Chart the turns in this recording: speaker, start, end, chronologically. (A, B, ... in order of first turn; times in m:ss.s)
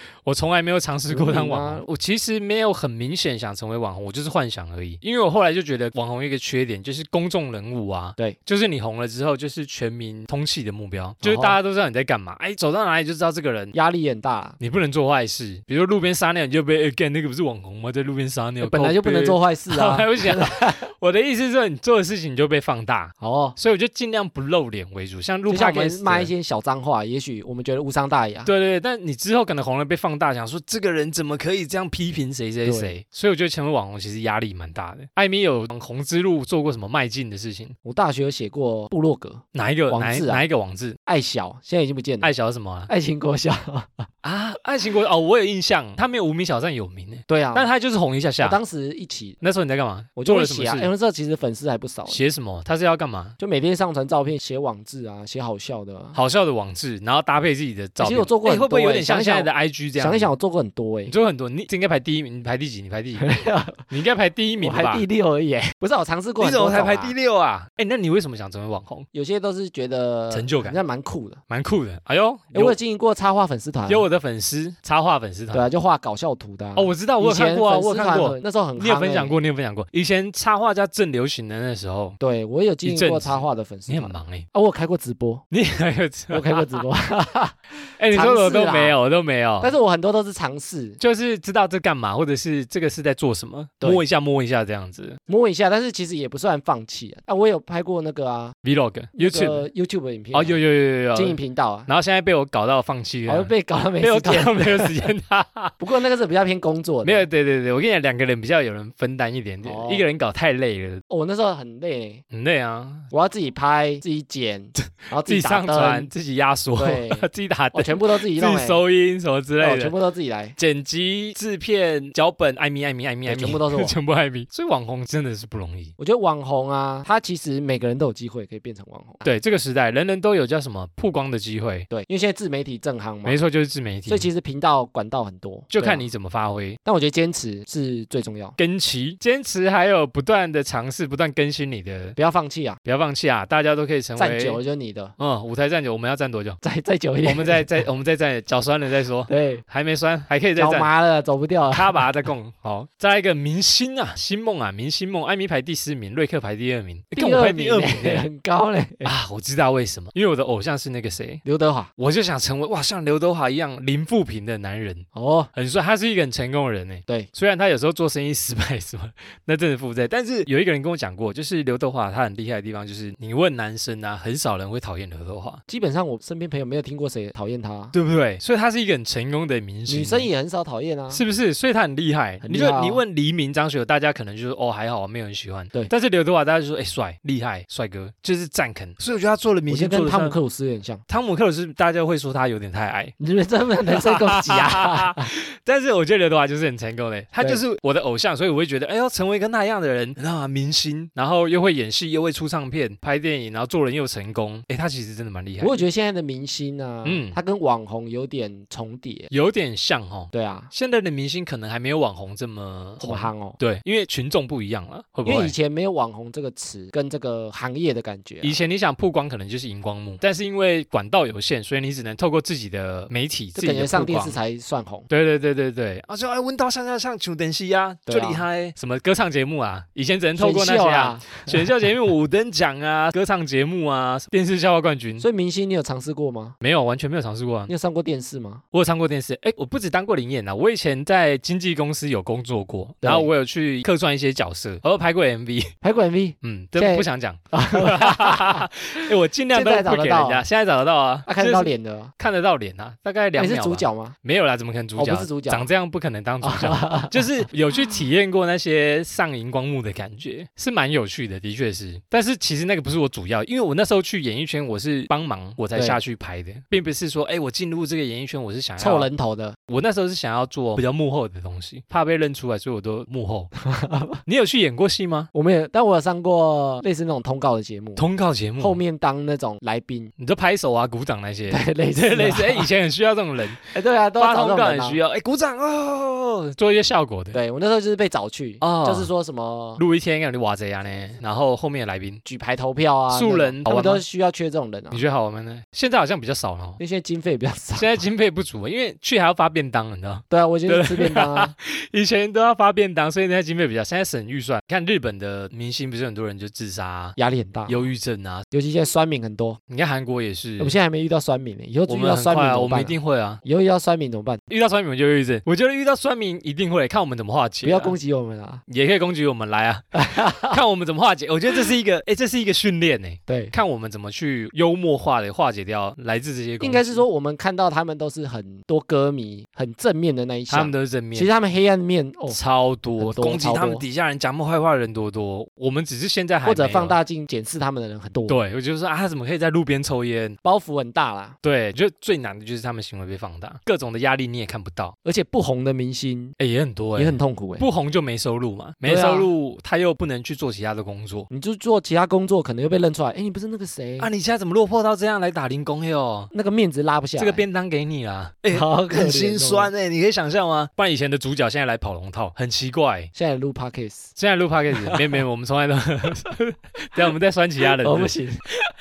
0:00.2-0:13.7 A
0:01.1-0:01.8 B
0:11.2-0:11.6 B
0:13.7-0:14.6 B
0:14.6-0:26.3 A
0:18.6-0:20.8 B
0:23.2-0:23.6 B
0:25.5-0:28.5 B
0:28.4-0:37.7 A
0:32.6-0:32.9 B
0:37.8-0:40.4 B
0:39.5-0:41.0 A
0:41.1-0:42.3 B
0:42.2-0:42.9 A
0:42.9-0:44.1 B
0:44.2-0:48.6 A
0:47.3-0:47.7 B
0:48.4-0:49.4 B
0:49.4-0:50.9 A
0:50.2-0:52.2 B
0:52.1-0:53.4 A
0:53.4-0:56.2 B
0:56.1-1:00.3 A
0:58.0-1:01.1 B
1:01.1-1:03.3 A
1:03.2-1:03.8 B
1:03.9-1:05.0 A
1:04.6-1:07.2 B
1:06.4-1:09.0 A
1:09.1-1:11.4 B
1:10.3-1:10.8 A
1:11.5-1:12.8 A
1:12.5-1:14.0 B
1:13.9-1:15.7 A
1:15.5-1:19.4 B
1:16.7-1:22.2 A
1:22.2-1:25.4 B
1:22.8-1:24.4 A
1:25.5-1:26.8 A
1:26.3-1:27.6 B
1:28.0-1:29.7 A
1:28.1-1:29.0 B
1:29.6-1:31.0 B
1:31.0-1:35.2 A
1:35.3-1:38.5 B
1:38.6-1:39.7 A
1:39.2-1:40.6 B
1:40.3-1:45.8 A
1:41.1-1:41.9 B
1:43.3-1:45.0 B
1:45.8-1:47.3 B
1:47.0-1:51.0 A
1:49.6-1:50.0 B
1:51.1-1:52.2 B
1:52.3-1:53.1 A
1:53.1-1:56.1 B
1:55.2-1:59.9 A
1:56.8-1:58.8 B
1:59.6-2:00.6 B
2:00.6-2:05.9 A
2:03.2-2:04.0 B
2:06.0-2:09.2 B
2:09.2-2:11.9 A
2:11.9-2:13.4 B
2:13.2-2:14.3 A
2:14.1-2:16.1 B
2:15.7-2:16.8 A
2:16.8-2:18.6 B
2:18.6-2:22.2 A
2:22.2-2:22.8 B
2:22.8-2:24.6 A
2:24.2-2:25.1 B
2:25.2-2:26.6 A
2:26.6-2:27.8 B
2:27.2-2:30.9 A
2:29.3-2:29.6 B
2:30.6-2:32.0 B
2:31.7-2:38.3 A
2:37.1-2:39.1 B
2:39.0-2:41.4 A
2:41.4-2:41.9 B
2:42.0-2:55.6 A
2:45.1-2:45.5 B
2:55.7-2:57.9 B
2:57.9-3:00.3 A
2:59.9-3:01.2 B
3:01.1-3:10.4 A
3:02.4-3:03.0 B
3:09.7-3:11.0 B
3:11.1-3:13.1 A
3:13.2-3:15.3 B
3:13.9-3:25.8 A
3:25.6-3:29.3 B
3:27.0-3:27.4 A
3:29.3-3:35.5 A
3:30.3-3:30.7 B
3:33.0-3:33.6 B
3:35.2-3:38.6 B
3:38.4-3:44.4 A
3:43.5-3:45.1 B
3:45.1-3:55.2 A
3:48.1-3:48.4 B
3:50.4-3:51.6 B
3:55.2-3:56.6 B
3:56.6-3:57.7 A
3:57.7-3:58.6 B
3:58.7-4:05.7 A
4:03.0-4:03.3 B
4:05.8-4:08.7 B
4:06.4-4:29.1 A
4:09.5-4:10.4 B
4:11.2-4:12.1 B
4:13.4-4:14.2 B
4:15.0-4:15.7 B
4:16.4-4:17.4 B
4:28.8-4:29.6 B
4:29.7-4:33.5 A
4:33.6-4:34.2 B
4:34.2-4:35.3 A
4:35.3-4:38.0 B
4:38.0-4:38.8 A
4:38.6-4:40.1 B
4:40.2-4:47.4 A
4:41.5-4:42.7 B
4:43.7-4:45.0 B
4:47.3-4:49.8 B
4:48.6-4:49.1 A
4:49.8-4:52.2 A
4:52.2-4:55.0 B
4:53.1-4:54.0 A
4:54.9-4:56.8 A
4:56.8-4:58.0 B
4:57.7-5:07.2 A
5:00.3-5:01.5 B
5:07.2-5:07.9 B
5:07.7-5:08.4 A
5:08.5-5:09.6 B
5:09.7-5:10.8 A
5:10.6-5:14.4 B
5:11.9-5:13.4 A
5:14.5-5:17.9 A
5:17.6-5:18.6 B
5:18.7-5:27.0 A
5:19.9-5:20.6 B
5:23.3-5:23.5 B
5:26.6-5:32.4 B
5:30.5-5:31.3 A
5:32.3-5:37.0 A
5:33.0-5:33.8 B
5:36.4-5:38.4 B
5:38.3-5:40.4 A
5:40.4-5:41.4 B
5:41.4-5:44.9 A
5:45.0-5:46.3 B
5:46.4-5:51.3 A
5:47.0-5:47.6 B
5:48.8-5:49.3 B
5:51.3-5:54.1 B
5:54.0-5:56.3 A
5:56.3-5:57.4 B
5:57.2-6:03.1 A
5:58.5-5:59.7 B
6:03.1-6:04.1 B
6:04.2-6:08.2 A
6:04.7-6:05.2 B
6:07.6-6:08.4 B